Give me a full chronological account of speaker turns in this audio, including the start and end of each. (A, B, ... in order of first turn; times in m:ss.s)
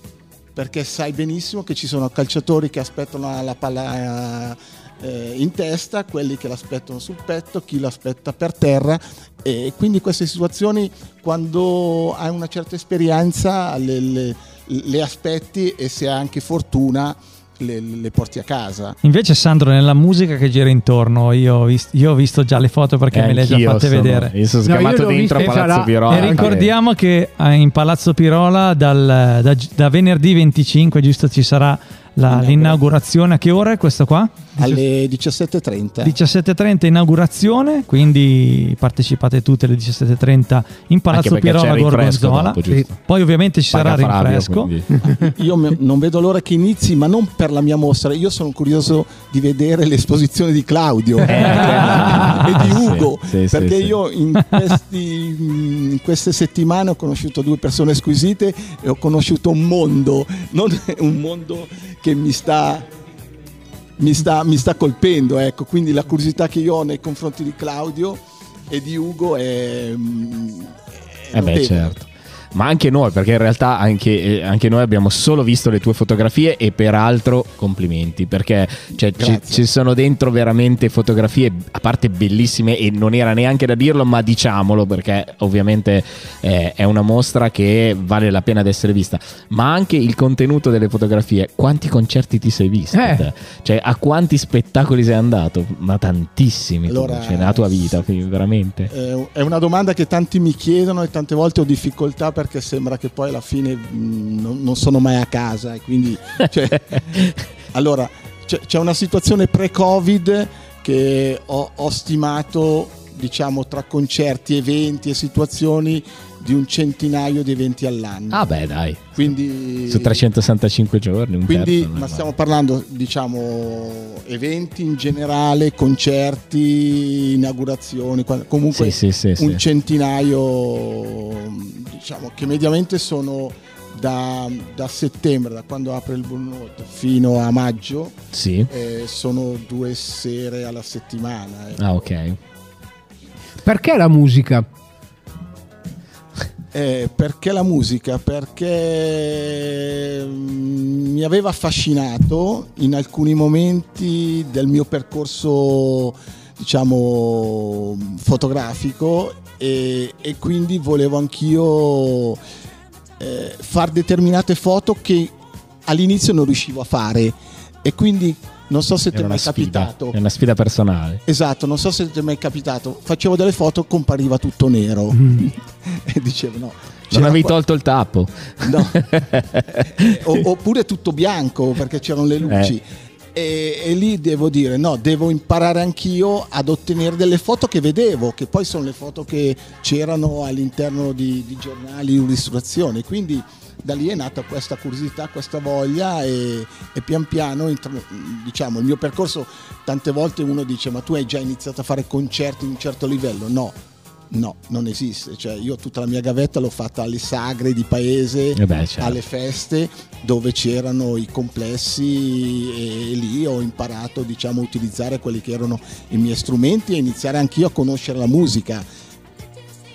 0:00.6-0:19.0 A
0:19.0-0:24.4 B
0:23.1-0:26.7 C
0:24.6-0:26.6 D
0:26.1-0:34.6 B
0:32.3-0:32.8 A
0:34.6-0:36.2 A
0:36.0-0:44.7 B
0:41.1-0:43.0 C
0:43.7-0:45.0 C
0:45.0-1:02.9 A
0:51.2-0:54.0 C
1:04.0-1:12.0 A
1:11.3-1:38.9 C
1:19.2-1:19.7 A
1:32.9-1:33.3 D
1:36.9-1:38.0 A
1:38.9-2:00.2 A
1:58.3-1:59.2 C
1:59.9-2:02.3 C
2:01.5-2:21.8 A
2:08.7-2:09.6 C
2:18.3-2:18.7 C
2:21.8-2:22.4 C
2:23.6-2:24.7 D
2:26.7-2:42.4 A
2:43.2-2:45.3 A
2:45.9-2:50.2 A
2:49.1-2:51.2 C
2:51.3-2:57.6 A
2:57.1-3:00.2 C
2:58.6-2:59.0 A
3:00.0-3:02.8 A
3:02.5-3:02.7 C
3:03.3-3:23.8 A
3:24.3-3:38.9 A
3:28.6-3:29.2 C